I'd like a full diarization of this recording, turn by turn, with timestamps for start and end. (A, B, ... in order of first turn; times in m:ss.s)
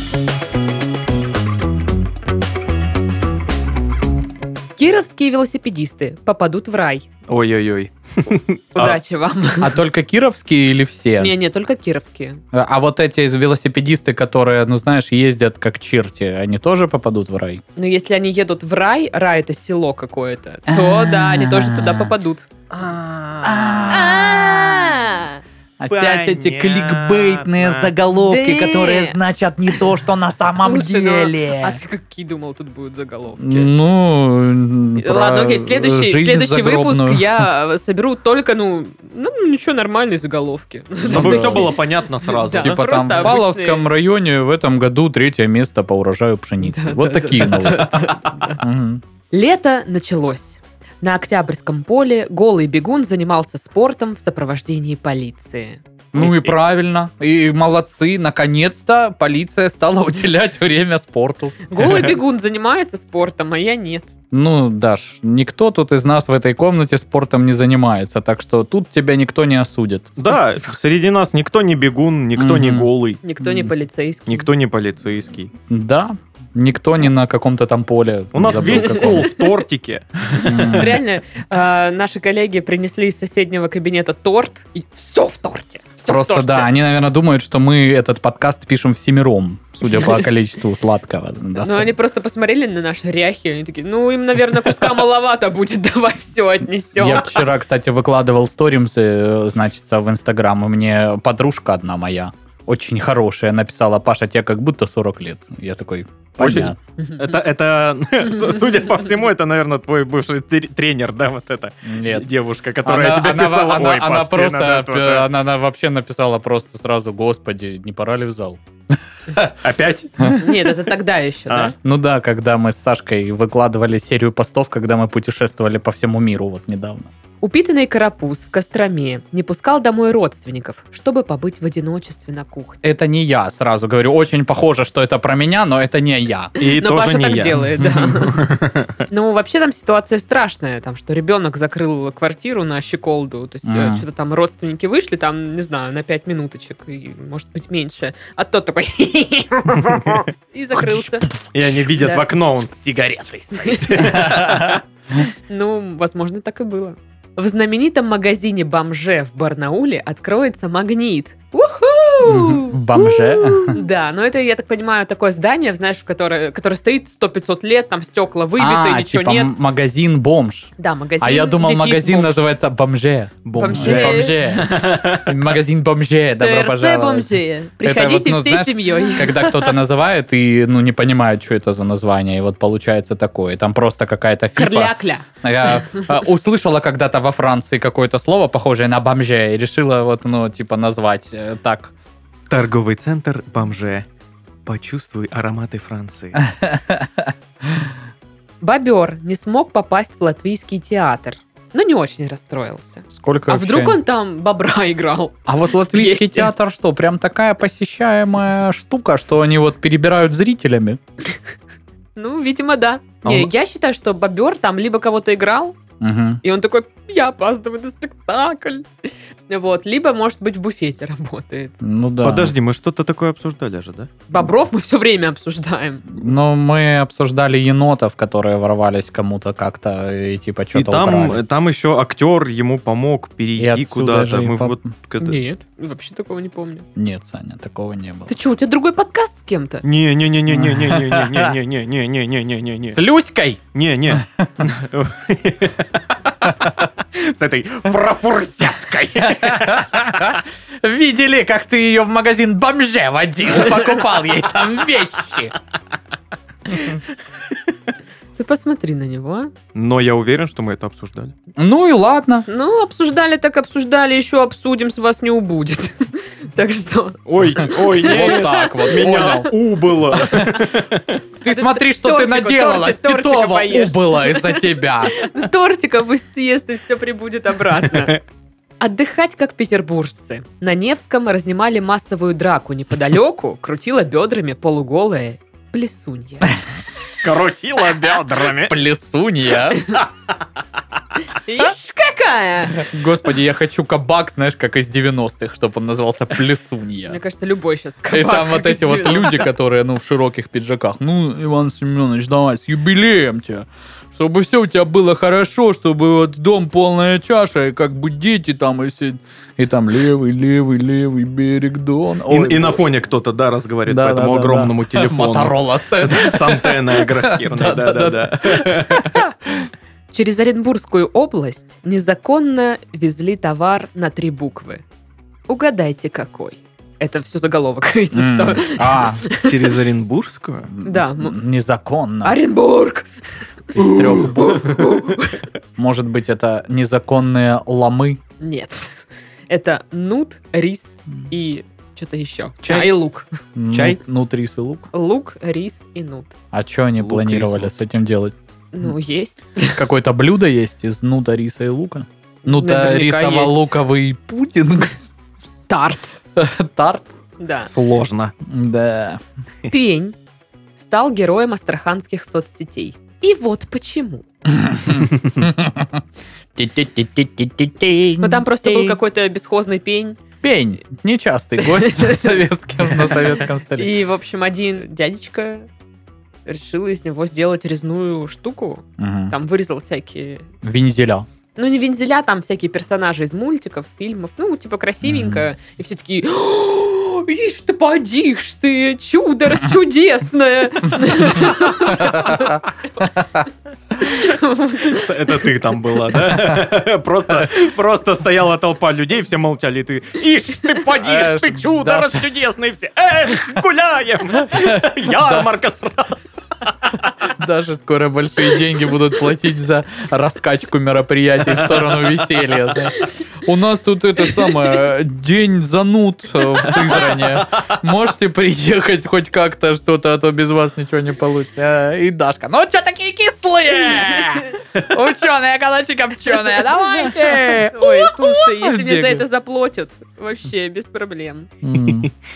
0:04.8-0:07.1 A
0:07.3-0:09.0 B
0:08.7-0:09.8 A
0:09.6-0:11.3 C
0:11.2-0:12.4 A
0:12.5-0:17.6 C
0:17.8-0:22.5 A
0:20.7-0:22.1 C
0:22.7-0:24.0 B
0:23.4-0:25.0 C
0:23.9-0:25.4 A
0:25.8-0:31.8 C
0:25.9-0:27.9 B
0:28.2-0:29.2 A
0:30.6-0:33.7 A
0:33.4-0:37.4 C
0:35.0-0:43.9 A
0:41.0-0:41.7 C
0:41.1-0:43.4 B
0:42.6-0:49.0 C
0:46.6-0:48.6 A
0:49.3-0:55.8 A
0:56.1-1:01.6 C
1:01.7-1:04.1 A
1:01.8-1:02.1 B
1:04.3-1:10.4 C
1:10.2-1:13.2 B
1:12.4-1:12.9 C
1:13.2-1:14.5 A
1:13.4-1:13.7 C
1:14.3-1:15.5 B
1:15.7-1:19.3 C
1:18.3-1:21.0 B
1:18.7-1:19.5 A
1:20.4-1:21.0 C
1:20.6-1:26.7 A
1:26.1-1:31.9 C
1:29.9-1:30.2 A
1:31.6-1:37.5 A
1:37.0-1:46.8 C
1:46.4-1:55.3 B
1:47.0-1:47.3 A
1:51.9-1:52.3 C
1:52.8-1:58.6 C
1:59.6-2:00.4 B
2:00.3-2:01.8 A
2:01.8-2:07.1 C
2:07.4-2:12.8 A
2:12.8-2:16.6 C
2:16.6-2:18.9 B
2:16.6-2:18.4 A
2:19.1-2:31.4 A
2:23.6-2:24.0 C
2:31.5-2:34.8 B
2:31.9-2:32.4 A
2:33.5-2:34.3 A
2:34.1-2:34.8 C
2:35.5-2:49.6 A
2:42.2-2:43.8 C
2:48.6-3:11.9 C
2:50.8-2:52.5 A
2:53.4-2:55.4 B
2:53.6-2:54.4 A
2:56.4-2:59.5 A
3:04.6-3:06.1 A
3:12.5-3:14.1 B
3:14.7-3:16.4 B
3:16.6-3:17.9 C
3:18.6-3:26.5 A
3:23.1-3:24.0 C
3:25.5-3:31.0 C
3:32.2-3:35.8 A
3:33.2-3:33.5 B
3:36.0-3:36.4 C
3:36.4-3:41.8 A
3:41.8-3:42.5 C
3:42.2-3:44.1 B
3:44.3-3:46.3 A
3:46.1-3:51.4 C
3:50.7-3:55.4 B
3:53.6-3:54.8 C
3:55.2-3:56.9 A
3:57.0-3:58.3 C
3:58.3-3:59.8 A
3:59.8-4:03.0 B
4:00.5-4:01.5 C
4:02.9-4:04.6 C
4:03.7-4:06.4 B
4:07.1-4:09.8 B
4:09.2-4:15.6 C
4:16.7-4:17.0 C
4:18.4-4:19.5 A
4:19.8-4:21.3 B
4:21.6-4:22.5 C
4:22.5-4:29.4 A
4:27.3-4:31.2 B
4:28.0-4:29.5 C
4:30.3-4:30.6 A
4:31.4-4:35.3 C
4:31.4-4:38.2 A
4:37.8-4:38.2 B
4:38.8-4:46.6 A
4:47.2-4:48.8 B
4:48.2-4:50.0 C
4:51.3-4:52.9 A
4:52.8-4:57.2 C
4:57.1-4:59.5 A
4:58.1-5:12.9 C
5:12.3-5:19.2 B
5:13.9-5:19.7 C
5:20.1-5:24.8 A
5:25.5-5:29.7 A
5:28.1-5:29.2 C
5:29.4-5:30.7 B
5:30.8-5:32.4 C
5:30.8-5:31.4 A
5:32.2-5:33.1 A
5:33.7-5:35.4 A
5:33.8-5:34.9 C
5:35.8-5:38.2 C
5:38.4-5:43.3 A
5:42.6-5:42.9 B
5:43.6-5:44.9 C
5:43.7-5:44.0 B
5:44.9-5:46.4 A
5:46.5-5:48.3 C
5:47.0-5:47.7 B
5:48.7-5:49.8 A
5:49.7-5:54.9 C
5:52.5-5:53.8 A
5:55.7-5:56.2 A
5:56.4-5:57.1 C
5:57.4-5:57.7 A
5:57.7-5:58.3 B
5:58.4-5:59.2 C
5:59.7-6:00.2 A
6:00.8-6:04.2 A
6:04.5-6:06.0 C
6:05.1-6:05.4 B
6:06.6-6:09.0 C
6:08.2-6:10.2 A
6:10.4-6:13.9 C
6:11.6-6:15.7 A
6:16.5-6:20.5 A
6:19.0-6:19.3 C
6:20.6-6:21.3 C
6:21.6-6:32.7 A
6:25.0-6:25.4 C
6:31.4-6:33.4 C
6:34.0-6:35.5 A
6:34.8-6:46.9 B
6:41.0-6:42.2 C
6:44.5-6:45.5 C
6:47.2-7:09.2 C
6:51.7-6:52.2 B
7:07.0-7:11.5 A
7:11.6-7:12.1 C